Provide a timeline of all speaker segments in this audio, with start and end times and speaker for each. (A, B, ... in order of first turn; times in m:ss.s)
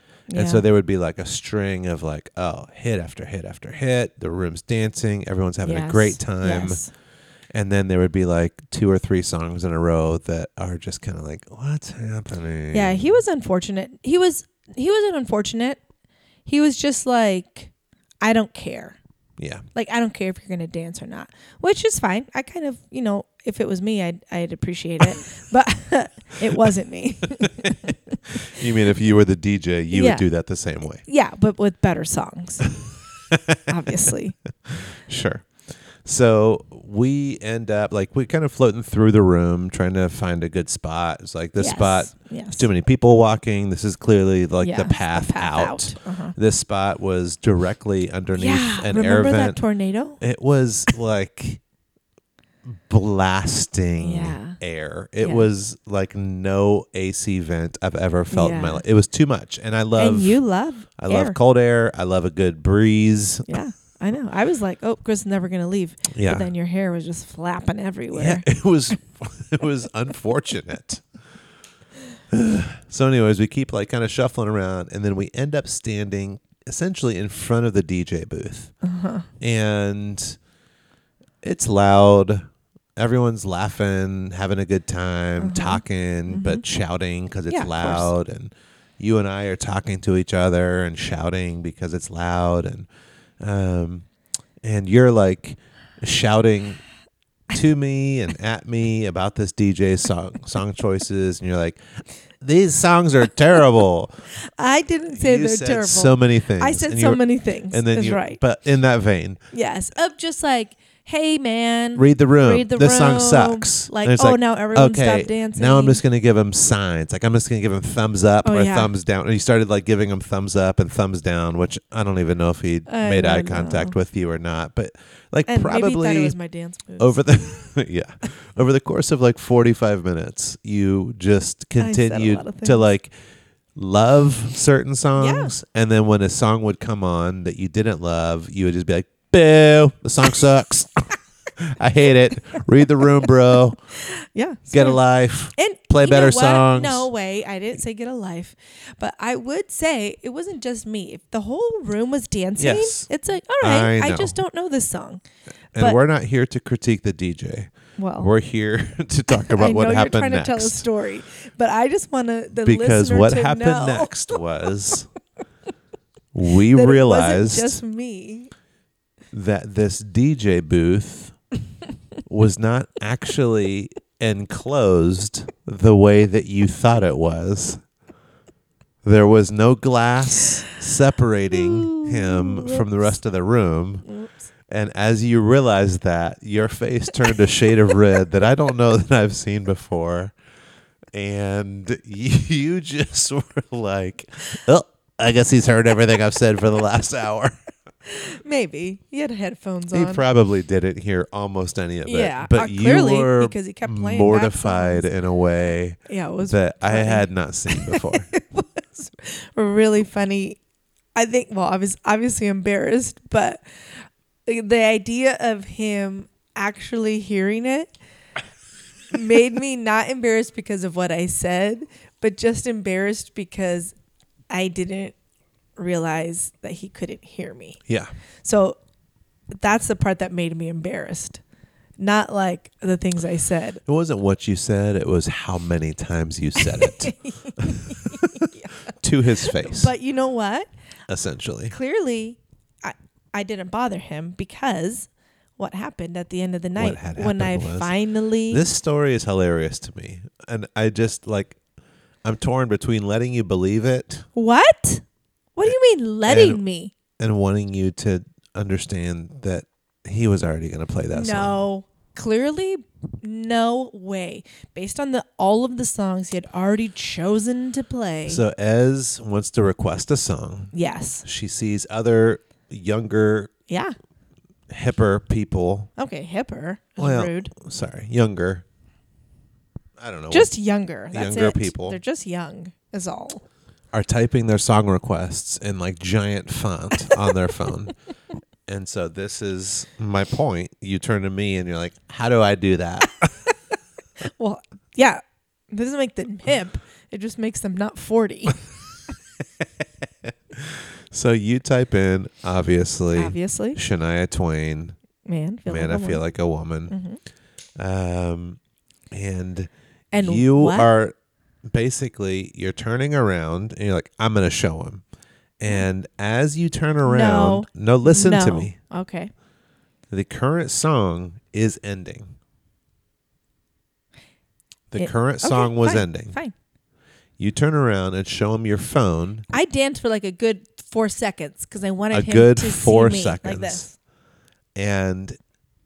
0:00.3-0:00.6 A
0:00.3-0:06.8 B
0:05.6-0:06.9 A
0:07.5-0:13.2 B
0:12.7-0:15.8 A
0:16.4-0:19.0 A
0:19.4-0:19.6 B
0:19.7-0:28.4 A
0:27.4-0:31.0 B
0:29.9-0:30.2 A
0:31.0-0:32.7 A
0:33.3-0:33.6 B
0:33.7-0:34.4 A
0:34.6-0:49.6 B
0:41.6-0:42.7 A
0:44.6-0:46.4 A
0:48.3-0:50.2 A
0:50.2-0:51.6 B
0:52.6-1:00.4 B
0:54.0-0:54.6 A
0:55.2-0:55.5 A
0:58.3-0:58.8 A
1:00.0-1:01.4 A
1:01.0-1:03.6 B
1:03.5-1:08.5 A
1:06.1-1:06.5 B
1:08.1-1:11.0 B
1:12.3-1:18.7 B
1:18.8-1:19.3 A
1:19.4-1:20.4 B
1:21.4-1:22.4 B
1:23.0-1:32.9 B
1:25.4-1:26.6 A
1:27.5-1:28.1 A
1:33.4-1:34.1 B
1:34.6-1:36.8 B
1:37.5-1:44.1 B
1:44.4-1:48.4 A
1:45.1-1:49.4 B
1:49.5-1:56.0 A
1:52.0-2:06.3 B
1:58.4-1:58.9 A
2:02.9-2:04.0 A
2:05.5-2:07.2 A
2:07.0-2:13.1 B
2:11.8-2:12.8 A
2:13.7-2:23.8 B
2:15.2-2:15.5 A
2:24.0-2:25.0 A
2:24.7-2:27.1 B
2:25.5-2:35.2 A
2:32.6-2:33.1 B
2:33.6-2:34.4 B
2:35.7-2:40.9 B
2:38.0-2:38.3 A
2:39.4-2:44.4 A
2:42.6-2:45.1 B
2:46.3-2:47.8 B
2:46.7-2:48.5 A
2:49.3-2:51.4 B
2:52.2-2:57.8 B
2:59.0-3:04.0 B
3:01.5-3:03.1 A
3:04.0-3:04.3 A
3:04.7-3:10.3 B
3:11.1-3:17.5 B
3:18.0-3:20.2 A
3:19.9-3:28.3 B
3:22.0-3:25.1 A
3:26.1-3:30.6 A
3:31.1-3:37.9 A
3:39.1-3:43.9 A
3:44.5-3:45.2 A
3:45.8-3:47.8 A
3:47.9-3:48.1 B
3:48.4-3:48.8 A
3:49.5-3:51.4 A
3:52.0-3:53.8 A
3:53.8-3:59.9 B
3:56.6-4:00.7 A
4:01.1-4:01.7 B
4:01.7-4:08.6 A
4:06.8-4:07.9 B
4:08.5-4:11.6 B
4:12.2-4:14.2 B
4:14.3-4:15.0 A
4:15.6-4:16.9 A
4:16.2-4:16.6 B
4:17.2-4:21.6 B
4:21.1-4:28.4 A
4:28.3-4:30.7 B
4:30.7-4:31.2 A
4:31.2-4:33.5 B
4:33.7-4:33.9 A
4:34.7-4:35.9 B
4:36.0-4:37.5 A
4:37.0-4:38.6 B
4:40.0-4:40.5 B
4:40.3-4:43.4 A
4:41.1-4:42.0 B
4:43.9-4:47.9 B
4:48.7-4:53.3 B
4:54.2-4:58.6 A
5:00.2-5:05.0 B
5:03.1-5:03.8 A
5:05.2-5:06.2 A
5:05.7-5:07.0 B
5:06.9-5:07.2 A
5:07.8-5:08.6 B
5:09.1-5:15.0 B
5:10.1-5:10.9 A
5:15.6-5:18.8 B
5:17.0-5:19.3 A
5:20.1-5:22.3 B
5:24.9-5:26.4 B
5:25.0-5:26.5 A
5:27.4-5:29.5 B
5:29.5-5:33.9 A
5:32.1-5:33.8 B
5:34.8-5:35.4 B